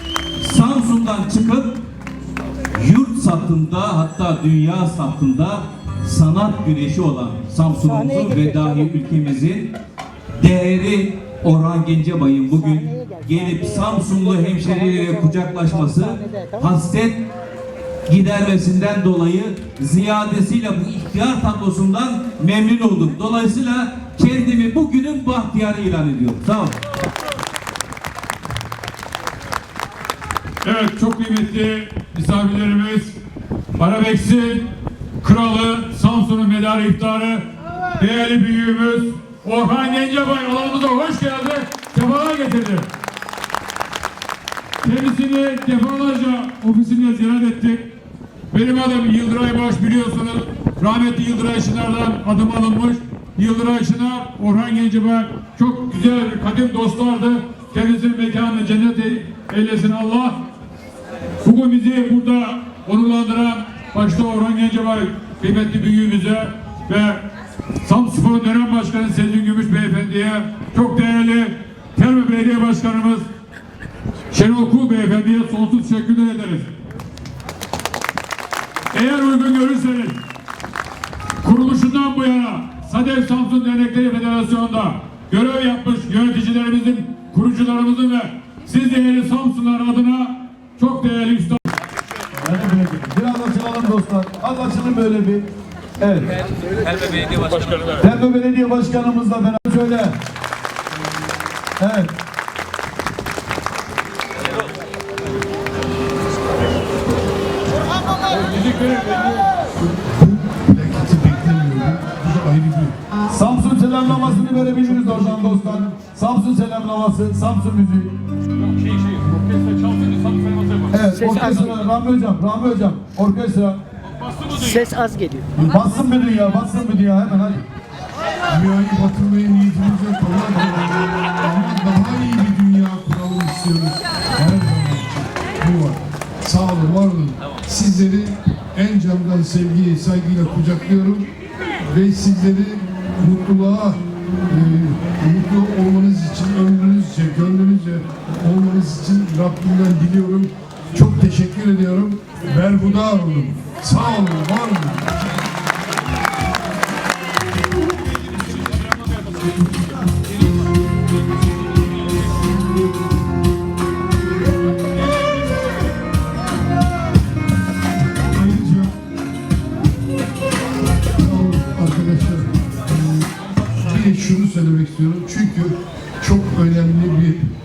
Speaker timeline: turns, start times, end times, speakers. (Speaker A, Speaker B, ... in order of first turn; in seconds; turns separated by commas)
Speaker A: 0.4-1.8, Speaker A: 2.8-9.8, Speaker B: 7.8-8.9, Speaker A: 10.4-17.3, Speaker B: 12.5-16.8, Speaker A: 18.1-26.8, Speaker C: 30.6-33.2, Speaker C: 33.8-34.7, Speaker C: 35.2-42.9, Speaker C: 44.8-47.9, Speaker C: 48.5-60.5, Speaker C: 61.4-67.3, Speaker C: 67.8-73.3, Speaker C: 74.3-76.7, Speaker C: 78.9-80.2, Speaker C: 81.4-91.7, Speaker D: 92.4-96.3, Speaker A: 96.8-97.8, Speaker D: 98.0-100.2, Speaker D: 101.8-102.2, Speaker C: 108.3-109.5, Speaker E: 109.8-113.0, Speaker D: 113.3-118.1, Speaker E: 114.0-116.0, Speaker C: 118.7-120.9, Speaker D: 120.9-123.8, Speaker B: 121.1-121.8, Speaker B: 124.5-125.5, Speaker D: 125.6-127.7, Speaker E: 128.5-141.3, Speaker E: 141.8-155.2, Speaker E: 168.4-168.9, Speaker E: 171.2-172.5, Speaker E: 173.8-177.5